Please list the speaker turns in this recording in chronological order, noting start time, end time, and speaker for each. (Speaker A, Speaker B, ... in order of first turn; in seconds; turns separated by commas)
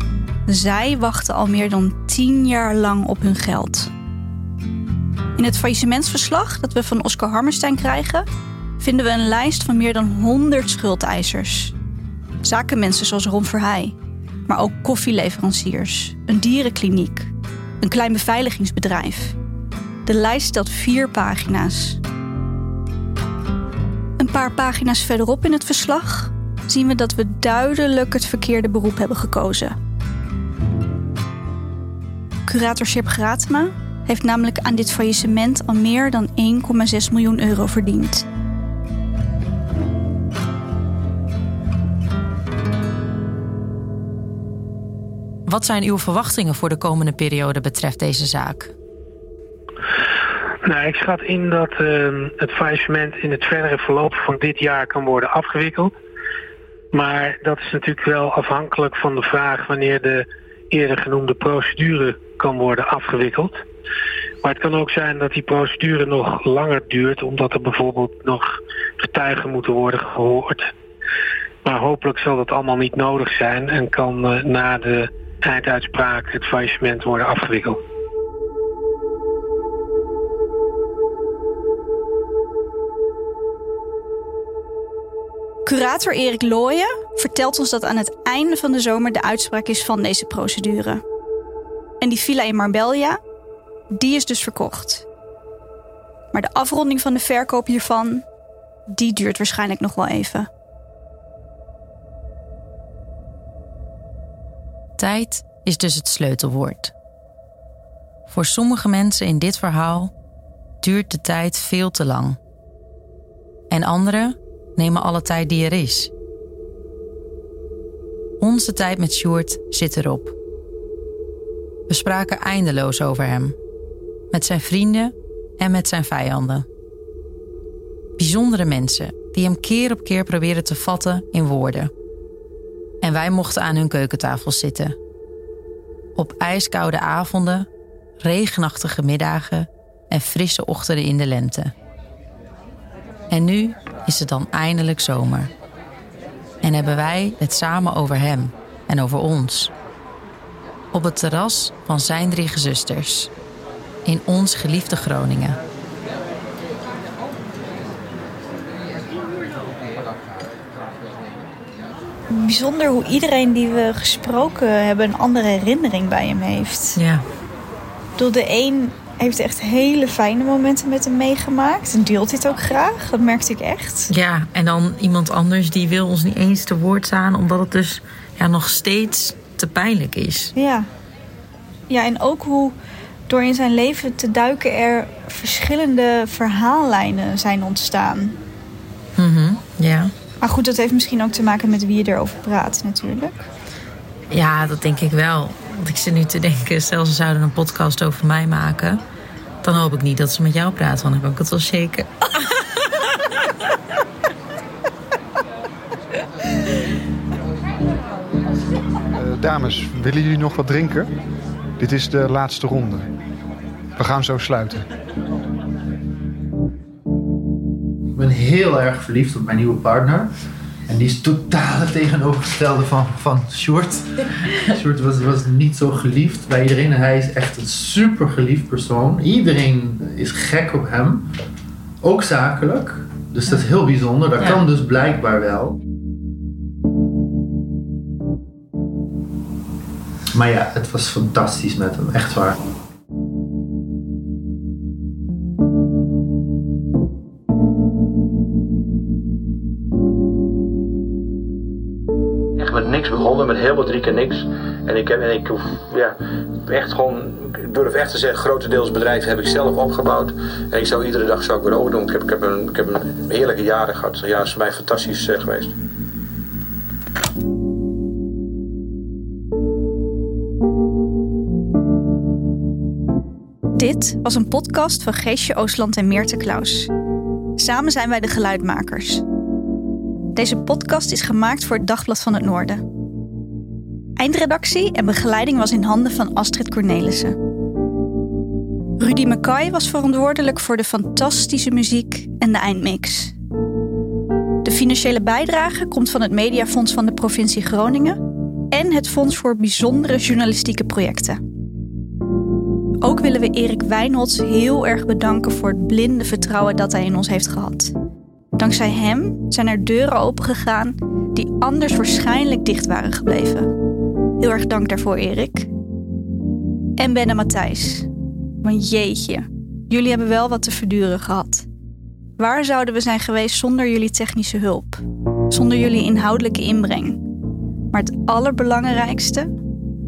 Speaker A: 0.5-3.9, Speaker A: 5.4-8.3, Speaker A: 8.8-11.7, Speaker A: 12.4-13.9, Speaker A: 14.5-17.3, Speaker A: 17.8-19.4, Speaker A: 20.1-22.0, Speaker A: 24.2-29.8, Speaker A: 32.5-38.3, Speaker B: 45.5-48.7, Speaker C: 50.6-55.9, Speaker C: 56.9-63.6, Speaker C: 64.4-70.7, Speaker C: 71.6-77.8, Speaker A: 85.7-91.0, Speaker A: 92.0-93.2, Speaker A: 93.9-95.0, Speaker A: 96.3-98.2, Speaker A: 98.9-100.5, Speaker B: 105.0-106.9, Speaker B: 108.3-110.1, Speaker B: 110.8-112.4, Speaker B: 113.7-116.1, Speaker B: 118.4-120.3, Speaker B: 121.9-123.6, Speaker B: 124.3-126.7, Speaker B: 128.2-131.9, Speaker B: 133.0-135.0, Speaker B: 136.2-137.7, Speaker B: 138.2-141.7, Speaker B: 143.3-145.5, Speaker B: 146.6-149.7, Speaker B: 150.9-153.3, Speaker B: 154.1-155.6, Speaker A: 162.3-167.0, Speaker B: 167.0-167.2, Speaker A: 168.2-174.1, Speaker B: 174.1-180.5, Speaker A: 180.6-180.9, Speaker A: 181.9-182.8, Speaker A: 183.3-188.4, Speaker B: 189.2-190.1, Speaker A: 190.4-193.3, Speaker B: 194.3-199.0, Speaker B: 199.6-202.4, Speaker D: 209.1-211.1, Speaker D: 211.8-213.1, Speaker D: 214.0-214.9, Speaker E: 218.1-220.3, Speaker E: 220.9-231.3, Speaker E: 232.0-235.8, Speaker E: 240.3-242.6, Speaker F: 252.6-265.8, Speaker A: 273.8-276.9, Speaker A: 277.6-279.2, Speaker A: 280.3-282.8, Speaker A: 284.2-287.4, Speaker A: 289.0-293.3, Speaker A: 294.6-298.2, Speaker A: 298.7-301.4, Speaker A: 303.0-307.9, Speaker A: 308.6-313.7, Speaker A: 314.4-315.7, Speaker A: 317.0-318.1, Speaker A: 318.6-321.7, Speaker A: 322.4-327.2, Speaker A: 327.9-329.5